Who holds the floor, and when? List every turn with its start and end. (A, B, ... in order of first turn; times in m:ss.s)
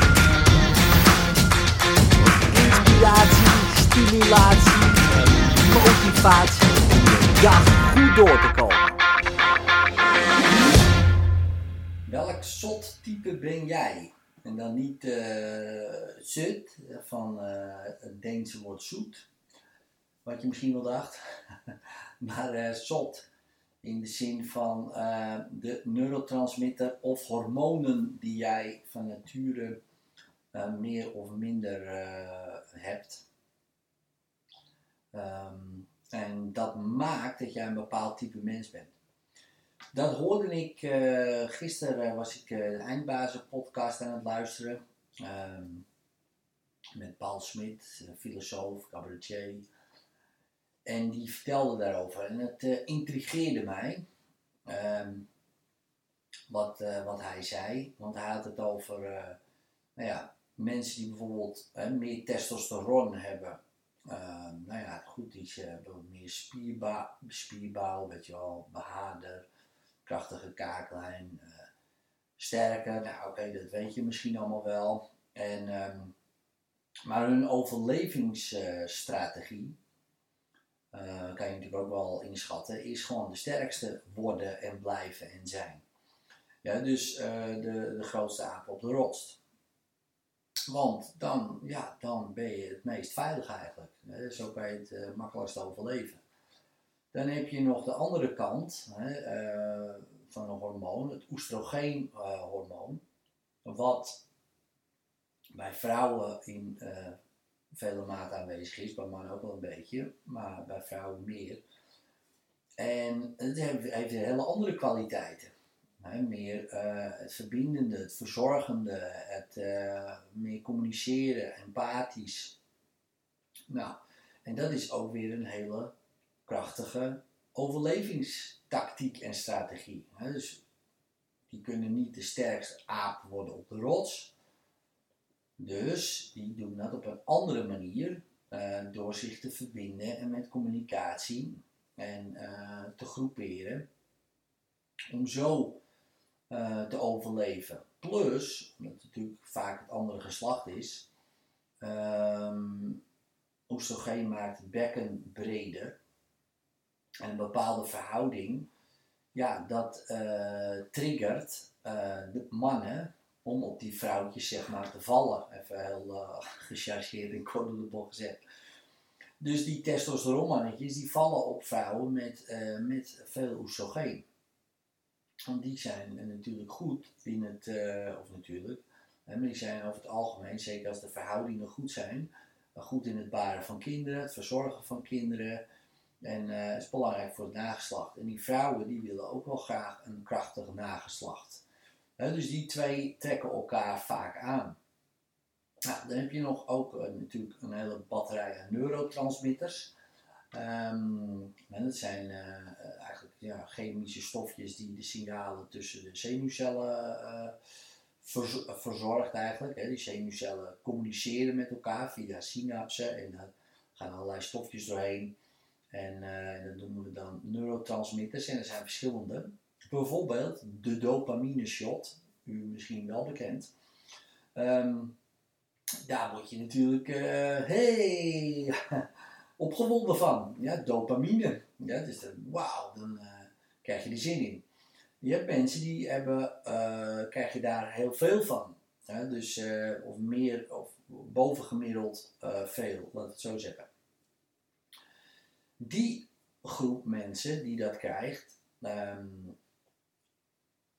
0:02.2-0:09.0 A
0:12.1-0:19.3 A
0:20.2-0:23.3 A
0:23.8-0:29.8 A
0:30.5-0:33.2 A
0:35.1-0:38.9 A
0:39.9-0:45.9 A
0:47.0-0:49.7 A
0:50.8-0:54.0 A
0:54.7-0:55.3 A
0:56.5-0:59.4 A
1:00.0-1:09.5 A
1:10.0-1:11.7 A
1:12.4-1:16.2 A
1:17.1-1:19.8 A
1:20.9-1:25.8 A
1:26.6-1:29.4 A
1:30.7-1:36.2 A
1:37.1-1:43.0 A
1:43.6-1:44.2 A
1:45.5-1:47.2 A
1:47.7-1:51.6 A
1:52.8-2:02.6 A
2:03.7-2:05.9 A
2:06.5-2:10.6 A
2:11.5-2:14.3 A
2:15.6-2:23.9 A
2:25.1-2:25.8 A
2:26.5-2:31.1 A
2:31.8-2:33.0 A
2:33.7-2:36.0 A
2:37.2-2:38.7 A
2:39.3-2:48.4 A
2:49.4-2:54.2 A
2:55.5-3:05.6 A
3:06.2-3:11.6 A
3:12.2-3:14.8 A
3:15.9-3:19.9 A
3:20.5-3:27.6 A
3:28.2-3:35.4 A
3:35.9-3:43.7 A
3:44.6-3:45.2 A
3:46.0-3:49.0 A
3:49.6-3:54.6 A
3:55.2-4:03.9 A
4:05.8-4:09.6 A